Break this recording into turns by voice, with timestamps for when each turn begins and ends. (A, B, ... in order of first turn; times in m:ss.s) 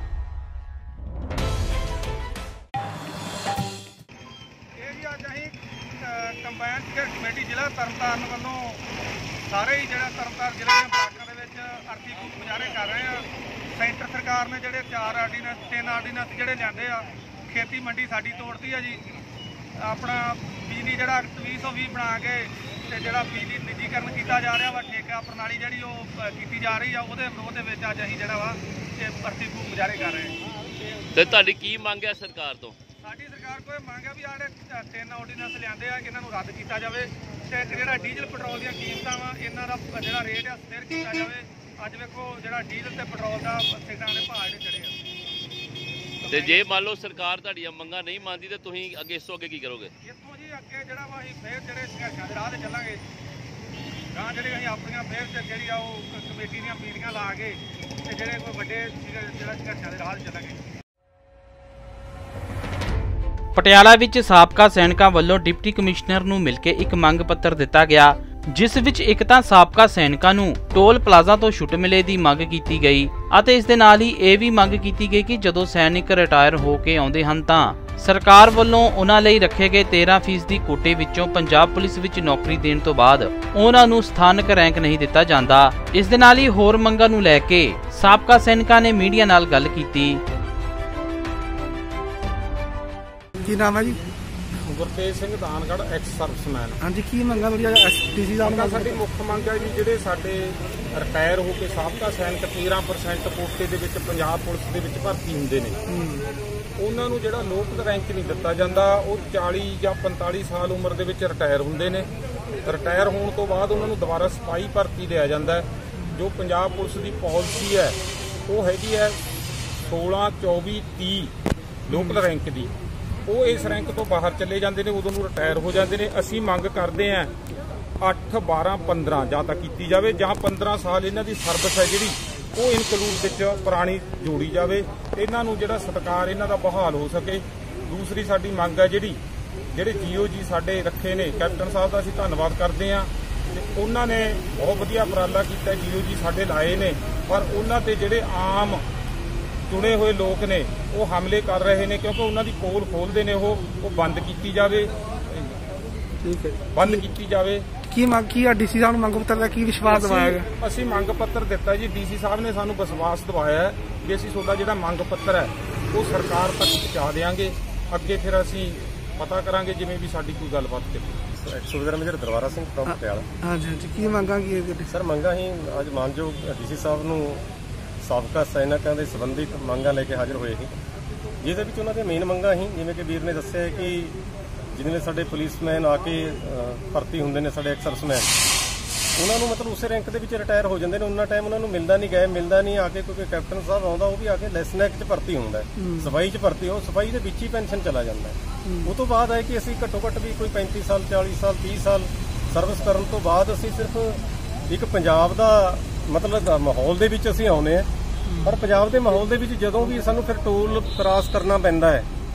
0:04.8-0:08.8 A
0:09.5-0:19.0 A
0:19.8-0:30.3 A
0:31.1-0:32.8 B
0:33.0-0:45.0 A
0:46.3-0:46.5 A
0:46.3-0:49.9 B
0:50.0-0:53.0 A
0:54.1-1:00.6 A
1:03.5-1:30.2 C
1:33.4-1:34.0 D
1:34.6-1:36.8 E
1:36.8-1:39.0 D
1:38.4-1:45.8 E
1:45.9-1:46.3 D
1:46.8-1:52.1 E
1:52.6-1:59.2 E
1:59.8-2:01.3 E
2:01.9-2:02.7 E
2:01.9-2:02.2 D
2:03.2-2:07.3 E
2:08.0-2:19.2 E
2:19.7-2:28.9 E
2:29.7-2:35.6 E
2:36.2-2:37.0 D
2:36.7-2:37.7 E
2:37.9-2:40.5 D
2:39.9-2:51.2 E
2:51.4-2:53.3 F
2:52.8-2:54.9 D
2:54.9-2:57.4 F
2:58.0-3:00.7 F
3:01.4-3:04.2 F
3:04.7-3:08.3 F
3:09.2-3:27.9 F
3:15.8-3:16.1 D
3:18.6-3:18.9 D
3:28.4-3:32.1 F